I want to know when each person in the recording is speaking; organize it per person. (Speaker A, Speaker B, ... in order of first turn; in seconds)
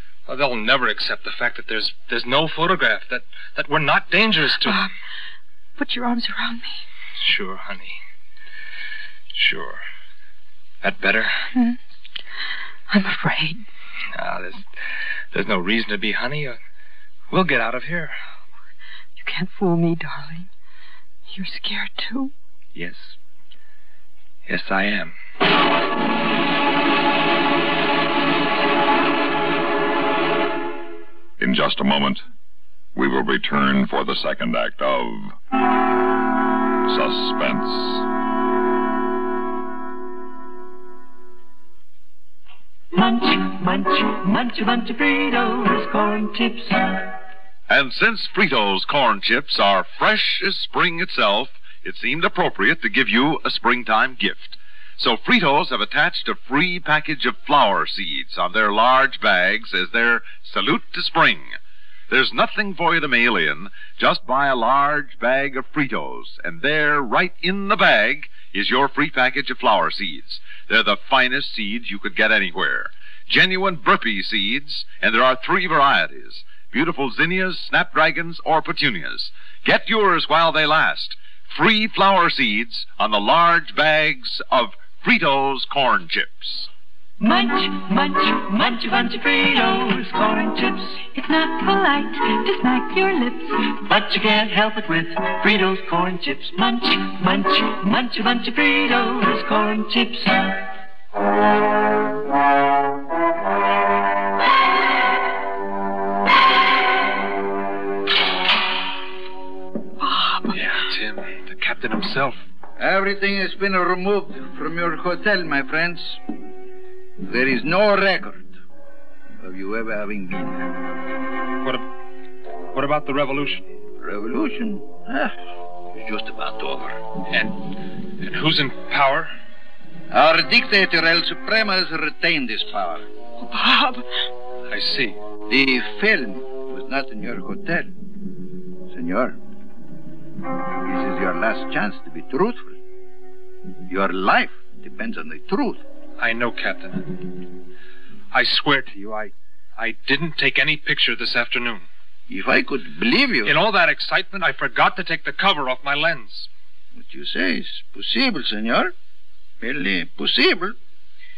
Speaker A: 0.3-4.9, 7.2-8.0, 9.3-9.8, 10.8-11.4, 14.1-14.6, 15.3-16.6, 17.3-18.2, 22.8-23.1, 24.5-25.2, 110.5-112.4, 122.7-123.6, 127.3-129.3, 134.7-135.2, 146.2-147.3, 148.3-151.9, 153.4-156.5
Speaker B: 4.6-4.9, 5.8-6.8, 11.5-11.8, 12.9-13.6, 19.2-20.5, 21.3-22.3, 110.0-110.6, 133.4-134.1
Speaker C: 31.4-32.2, 33.0-35.4, 36.9-38.1
Speaker D: 42.9-47.1, 87.2-100.6
Speaker E: 47.7-61.6, 62.1-86.7
Speaker F: 112.8-116.2, 117.2-118.5, 119.4-120.7, 124.0-125.3, 125.9-127.0, 130.1-133.1, 135.5-137.9, 138.9-139.4, 140.8-142.8, 143.9-145.8, 152.3-153.5, 156.9-158.9, 159.6-160.8